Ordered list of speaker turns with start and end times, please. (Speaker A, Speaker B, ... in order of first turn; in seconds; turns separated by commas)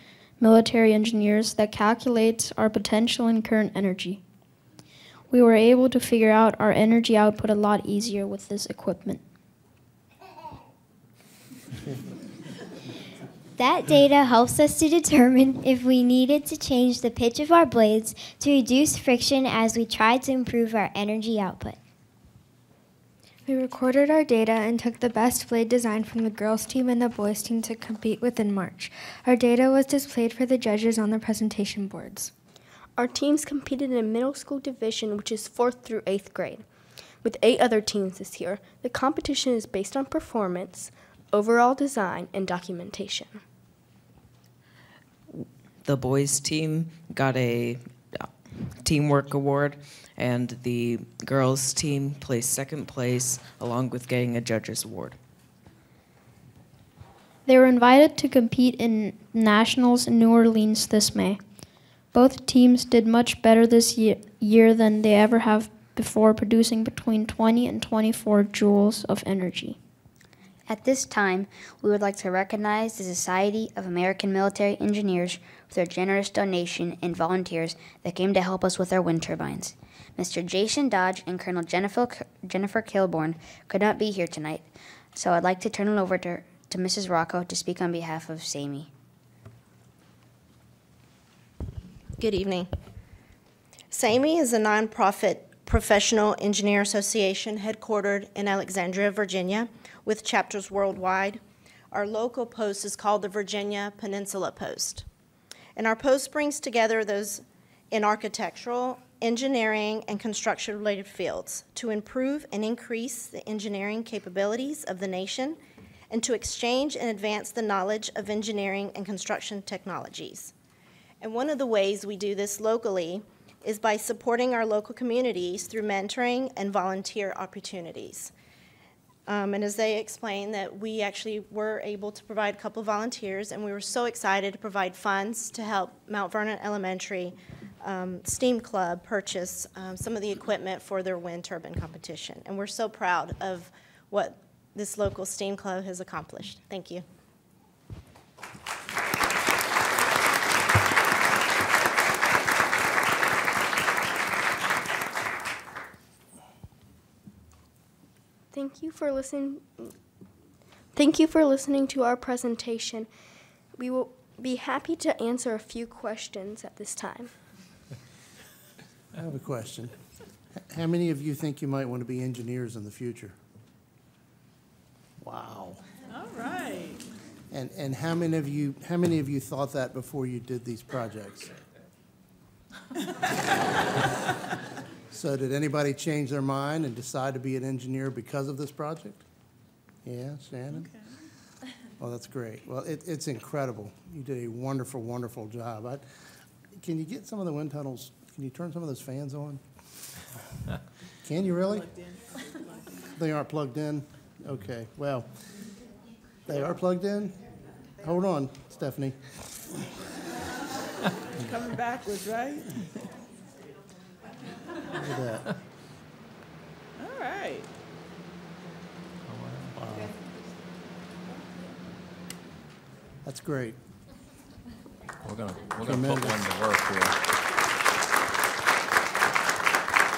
Speaker A: 0.4-4.2, Speaker A: 5.3-9.2, Speaker B: 13.6-21.8, Speaker C: 23.5-32.3, Speaker D: 33.0-36.6, Speaker D: 37.2-43.4, Speaker E: 45.8-55.2, Speaker A: 57.5-61.4, Speaker A: 62.1-69.8, Speaker F: 70.7-88.9, Speaker G: 92.2-92.8, Speaker G: 93.9-105.1, Speaker G: 105.7-115.6, Speaker G: 116.1-120.5, Speaker G: 121.2-128.3, Speaker G: 129.3-147.1, Speaker D: 158.5-159.9, Speaker D: 160.9-163.1, Speaker D: 163.7-167.3, Speaker H: 169.1-169.9, Speaker H: 170.6-173.3, Speaker H: 175.2-175.8, Speaker I: 176.1-177.0, Speaker H: 177.5-181.5, Speaker H: 185.1-189.2, Speaker H: 190.0-190.9, Speaker I: 190.7-191.1, Speaker H: 192.0-196.0, Speaker H: 196.8-200.2, Speaker H: 201.2-201.9, Speaker I: 201.6-203.1, Speaker H: 203.2-205.5, Speaker H: 206.5-207.4, Speaker H: 208.0-209.7, Speaker I: 211.4-213.1, Speaker H: 215.0-215.5, Speaker I: 217.0-217.7, Speaker J: 219.2-219.8, Speaker H: 219.7-220.1, Speaker H: 223.2-223.8, Speaker J: 225.2-227.2, Speaker H: 225.8-226.4